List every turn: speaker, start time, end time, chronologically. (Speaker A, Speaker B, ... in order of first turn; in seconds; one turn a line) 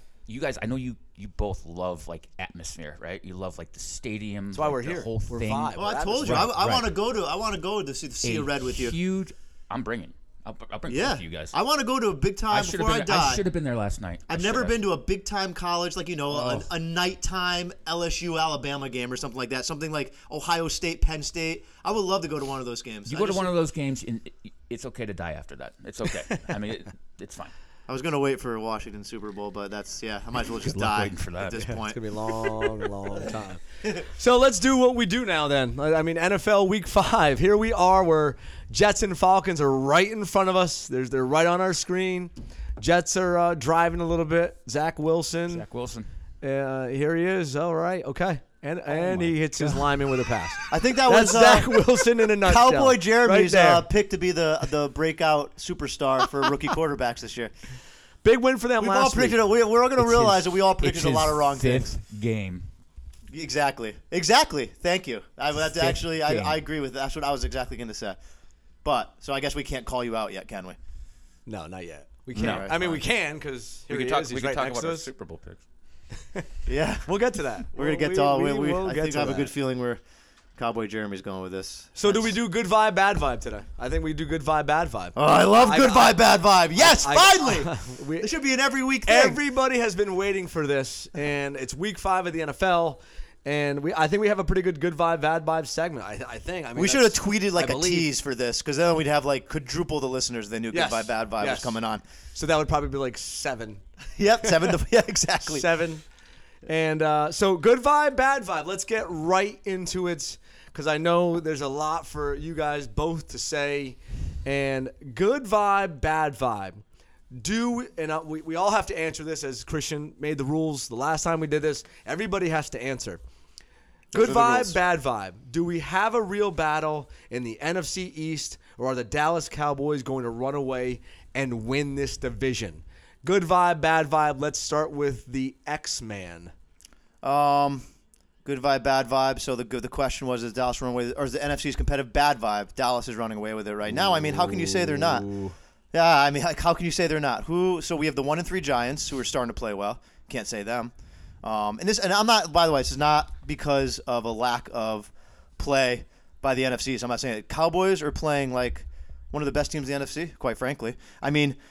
Speaker A: 0.3-6.9
Speaker B: 4.5-6.5
Speaker C: 5.7-8.9
Speaker A: 8.2-11.5
Speaker C: 10.9-13.4
Speaker A: 12.5-14.8
Speaker C: 14.3-23.5
Speaker A: 16.3-16.6
Speaker A: 23.1-27.5
Speaker C: 27.9-32.0
Speaker A: 30.6-31.7
Speaker B: 31.7-45.6
Speaker A: 45.5-46.1
Speaker B: 46.4-53.9
Speaker A: 49.0-49.4
Speaker C: 50.7-51.9
Speaker C: 52.4-57.5
Speaker B: 58.2-59.5
Speaker C: 58.8-61.9
Speaker A: 60.0-62.7
Speaker C: 63.3-68.2
Speaker A: 65.6-66.6
Speaker C: 68.8-70.8
Speaker B: 71.5-75.1
Speaker C: 72.3-73.0
Speaker A: 72.3-73.0
Speaker A: 73.9-75.6
Speaker C: 76.7-77.1
Speaker B: 77.0-79.5
Speaker C: 77.7-80.0
Speaker C: 80.6-82.3
Speaker B: 82.0-86.2
Speaker C: 85.1-89.4
Speaker B: 86.7-88.3
Speaker B: 89.0-98.1
Speaker C: 96.8-102.0
Speaker B: 100.7-101.7
Speaker B: 102.3-103.8
Speaker C: 104.2-105.7
Speaker B: 104.4-104.7
Speaker B: 105.4-106.0
Speaker B: 106.7-116.8
Speaker B: 117.3-123.2
Speaker C: 124.1-124.8
Speaker B: 124.1-136.5
Speaker C: 137.2-137.8
Speaker C: 138.4-145.3
Speaker B: 143.9-145.5
Speaker C: 145.9-161.6